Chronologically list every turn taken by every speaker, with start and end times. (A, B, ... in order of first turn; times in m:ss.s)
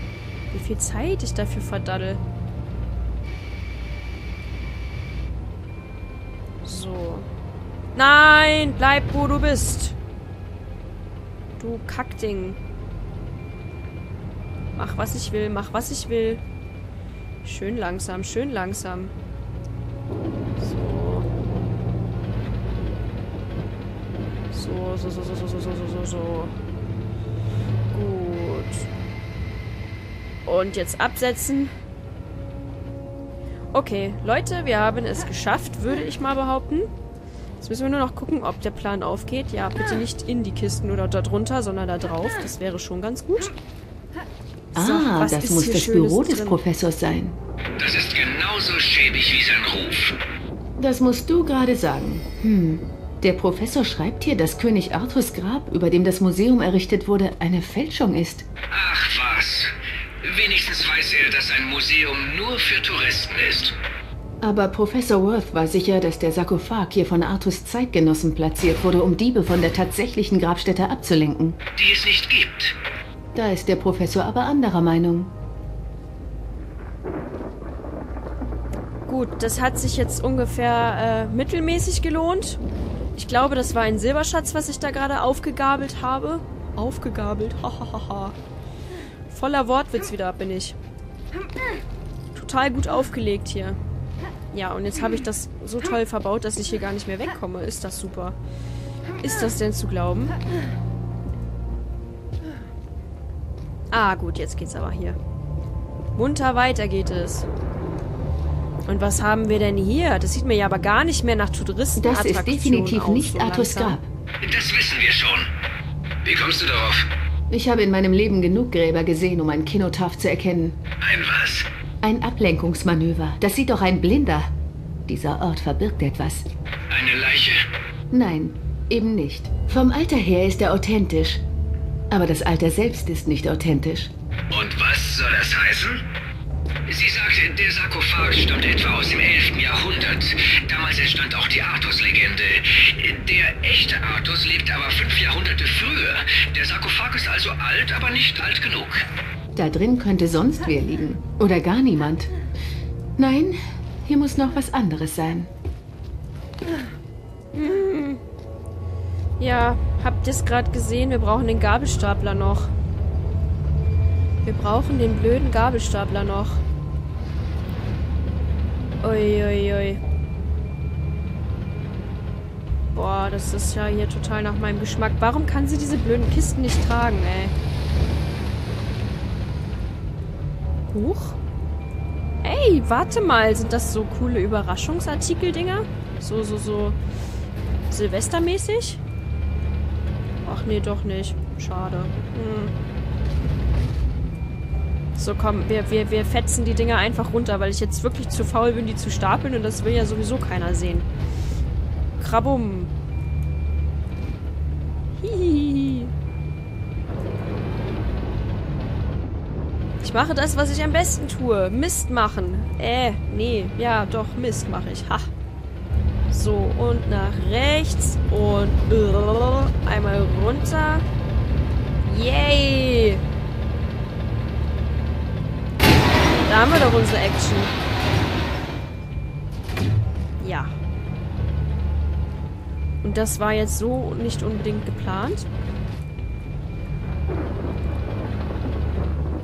0:00.5-0:02.2 A
0:06.6-0:07.3 A
0:08.0-0:10.0 A
0:11.6-0:12.6 A
0:14.8-0:16.4 A
0:17.4-0:19.1 A
0:20.6-0:21.3 A
0:24.5-0:26.6 A
0:27.9-0:28.9 A
0:30.4-0:31.7 A
0:33.7-0:36.9 A
0:37.6-0:43.5 A
0:44.7-0:46.6 A
0:44.8-0:47.4 B
0:47.8-0:50.2 C
0:50.8-0:58.5 B
0:58.7-0:59.7 C
1:00.2-1:03.8 C
1:04.4-1:11.6 B
1:11.8-1:12.8 C
1:13.4-1:15.3 B
1:19.1-1:22.6 A
1:23.2-1:28.4 A
1:29.3-1:30.8 A
1:32.3-1:33.8 A
1:34.5-1:38.4 A
1:39.2-1:40.4 A
1:43.9-1:45.2 A
1:46.2-1:47.5 A
1:48.9-1:54.0 A
1:52.0-1:54.1 B
1:54.4-1:55.5 C
1:56.2-1:57.0 C
1:57.5-2:00.8 B
2:01.0-2:01.7 C
2:02.0-2:04.5 B
2:05.1-2:06.5 B
2:06.9-2:07.6 C
2:08.1-2:11.4 B
2:12.1-2:14.1 B
2:14.5-2:16.0 C
2:16.9-2:29.0 C
2:29.6-2:32.3 B
2:33.2-2:35.5 B
2:37.5-2:38.2 A
2:39.4-2:42.7 A
2:44.4-2:46.6 A
2:49.0-2:50.0 A
2:52.9-2:57.5 A
3:00.9-3:01.4 A
3:02.4-3:07.0 A
3:07.9-3:09.0 A
3:10.4-3:12.8 A
3:15.2-3:21.1 A
3:22.2-3:22.9 A
3:25.2-3:26.1 A
3:30.0-3:35.3 A
3:36.3-3:41.0 A
3:42.0-3:43.2 A
3:46.4-3:47.8 A
3:50.4-3:50.7 A
3:53.0-3:55.5 A